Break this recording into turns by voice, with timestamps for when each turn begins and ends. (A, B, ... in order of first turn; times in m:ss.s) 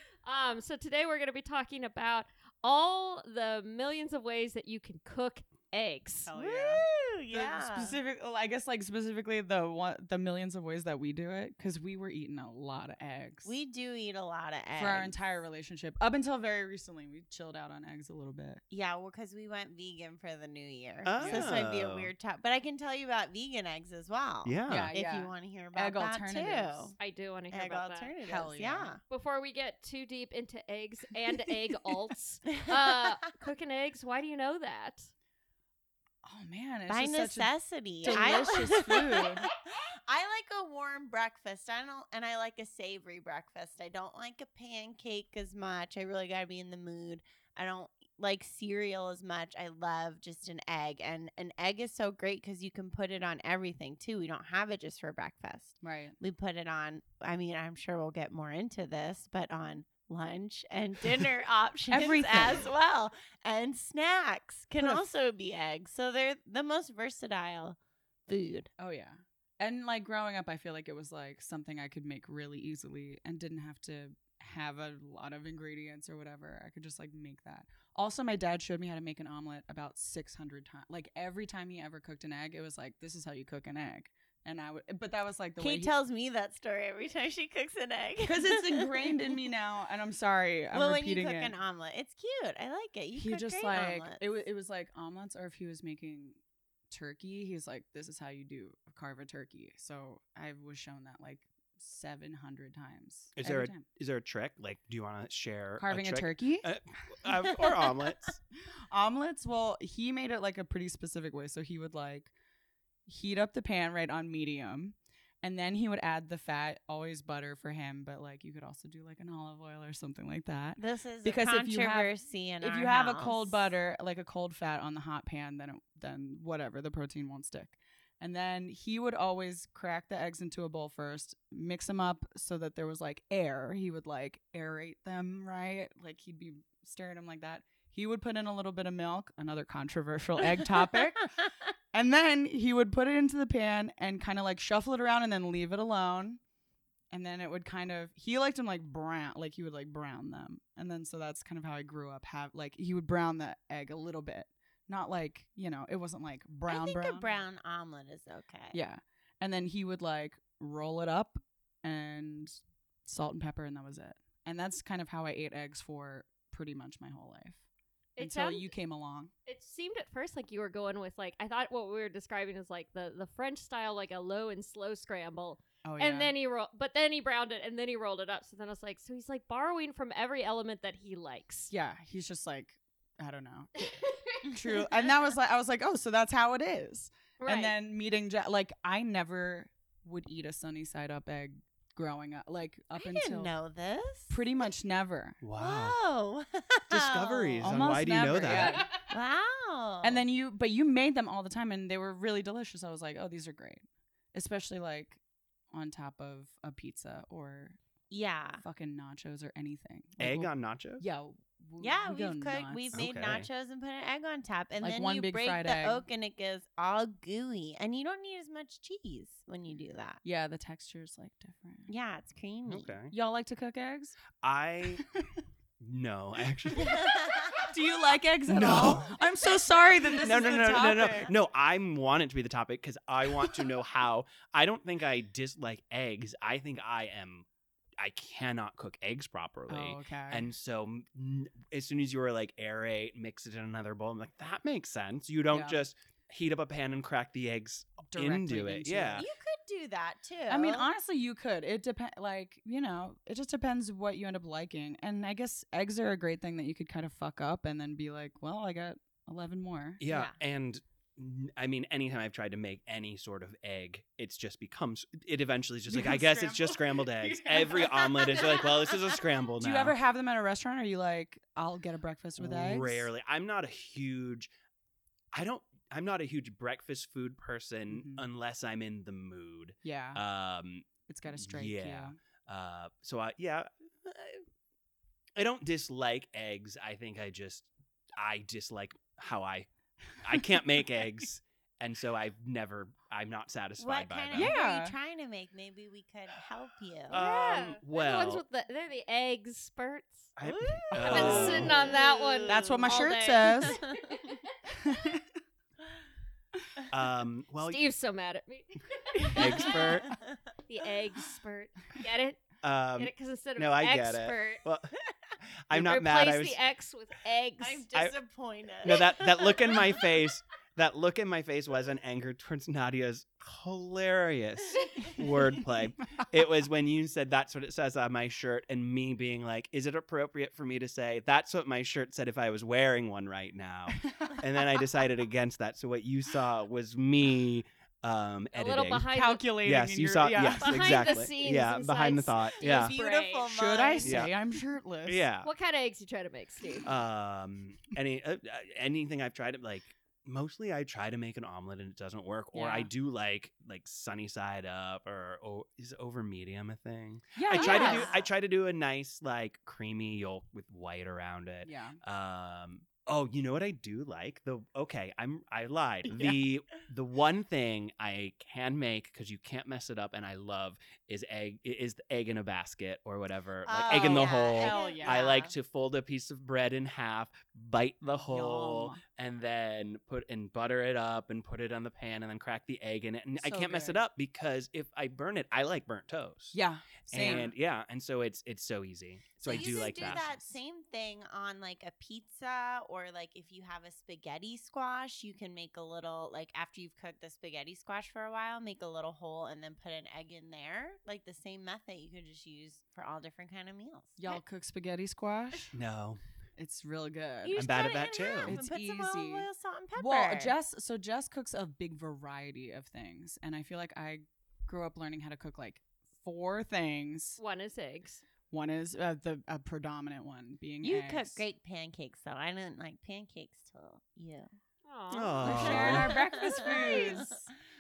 0:00.2-0:06.3 A
0:06.3-0:13.5 B
0:06.3-0:08.0 C
0:13.4-0:15.2 C
0:14.8-0:18.6 B
0:18.7-0:27.0 C
0:21.0-0:22.1 D
0:21.2-0:21.6 B
0:24.4-0:24.9 D
0:24.7-0:26.9 B
0:27.0-0:28.1 A
0:27.5-0:29.0 C
0:28.2-0:28.9 B
0:29.1-0:35.1 A
0:32.5-0:33.0 C
0:36.2-0:39.5 B
0:36.9-0:39.5 C
0:40.1-1:08.7 C
0:55.8-0:56.2 B
1:01.9-1:02.7 B
1:04.8-1:05.0 B
1:08.8-1:25.9 B
1:25.6-1:29.4 C
1:28.2-1:31.5 B
1:30.7-1:34.5 C
1:33.2-1:36.4 B
1:36.9-1:43.8 B
1:43.4-1:48.4 D
1:45.8-1:46.7 B
1:48.9-1:52.3 B
1:53.1-2:26.4 B
2:00.8-2:03.7 C
2:27.1-2:37.4 B
2:36.7-2:38.8 C
2:38.7-2:47.6 B
2:48.2-2:48.7 A
2:48.2-2:49.3 B
2:49.5-3:01.7 A
2:55.8-2:56.3 B
3:01.7-3:13.6 B
3:04.0-3:04.5 A
3:07.4-3:07.8 A
3:13.0-3:14.3 C
3:14.3-3:15.4 B
3:15.4-3:16.0 D
3:15.6-3:17.7 C
3:16.9-3:18.8 D
3:17.6-3:18.9 B
3:19.1-3:20.2 C
3:20.0-3:25.2 B
3:25.7-3:27.8 B
3:28.1-3:28.6 C
3:28.6-3:33.0 B
3:30.2-3:31.0 D
3:31.8-3:40.2 C
3:32.9-3:33.5 D
3:34.8-3:36.0 B
3:40.2-3:41.9 B
3:41.9-3:43.0 C
3:42.7-3:43.1 D
3:43.1-3:44.2 B
3:44.4-3:45.1 D
3:45.8-3:47.1 D
3:46.7-3:47.0 B
3:46.8-3:47.7 C
3:47.6-3:51.3 B
3:48.5-3:57.5 D
3:58.0-4:09.3 D
3:59.7-4:00.5 B
4:05.5-4:05.8 B
4:08.1-4:09.2 B
4:09.2-4:10.9 C
4:10.5-4:20.0 B
4:20.0-4:30.0 D
4:20.1-4:20.4 C
4:25.9-4:33.1 B
4:32.4-4:34.5 D
4:35.3-4:44.4 D
4:37.9-4:38.2 B
4:39.8-4:40.2 B
4:41.1-4:42.2 B
4:45.4-4:49.7 D
4:50.2-4:54.6 D
4:53.8-4:57.2 C
4:54.3-4:54.9 B
4:57.1-4:58.4 D
4:57.1-5:00.3 A
5:00.4-5:01.8 D
5:00.4-5:04.4 C
5:00.9-5:01.8 B
5:01.1-5:04.5 A
5:02.5-5:03.9 B
5:04.7-5:05.2 B
5:06.9-5:07.8 D
5:07.6-5:10.0 A
5:09.3-5:10.1 D
5:10.7-5:12.4 A
5:12.6-5:15.0 D
5:13.0-5:14.6 A
5:15.7-5:16.6 D
5:15.7-5:17.9 A
5:17.6-5:20.0 C
5:18.8-5:39.1 D
5:33.9-5:34.4 B
5:38.5-5:39.5 A
5:39.1-5:41.2 B
5:39.6-5:42.9 D
5:40.6-5:43.5 A
5:42.6-5:44.3 C
5:43.5-5:45.2 B
5:44.0-5:44.3 D
5:45.1-5:45.5 D
5:45.4-5:46.9 A
5:46.8-6:30.3 D
5:52.5-5:52.9 B
5:57.4-5:58.1 B
5:57.6-5:58.3 C
5:57.6-5:58.0 A
6:01.6-6:02.0 B
6:13.6-6:15.6 C
6:13.9-6:15.3 B
6:18.1-6:19.0 B
6:23.4-6:24.0 B
6:26.5-6:27.5 B
6:27.2-6:27.5 C
6:29.4-6:44.4 C
6:29.5-6:30.4 B
6:44.2-6:45.7 B
6:45.7-6:46.2 D
6:46.6-6:47.6 B
6:47.4-6:50.6 C
6:47.6-6:48.6 D
6:48.4-6:57.4 B
6:57.4-6:58.2 A
6:58.5-7:01.4 B
7:00.8-7:04.5 C
7:04.8-7:07.2 A
7:05.1-7:06.2 D
7:05.4-7:07.5 B
7:05.6-7:07.5 C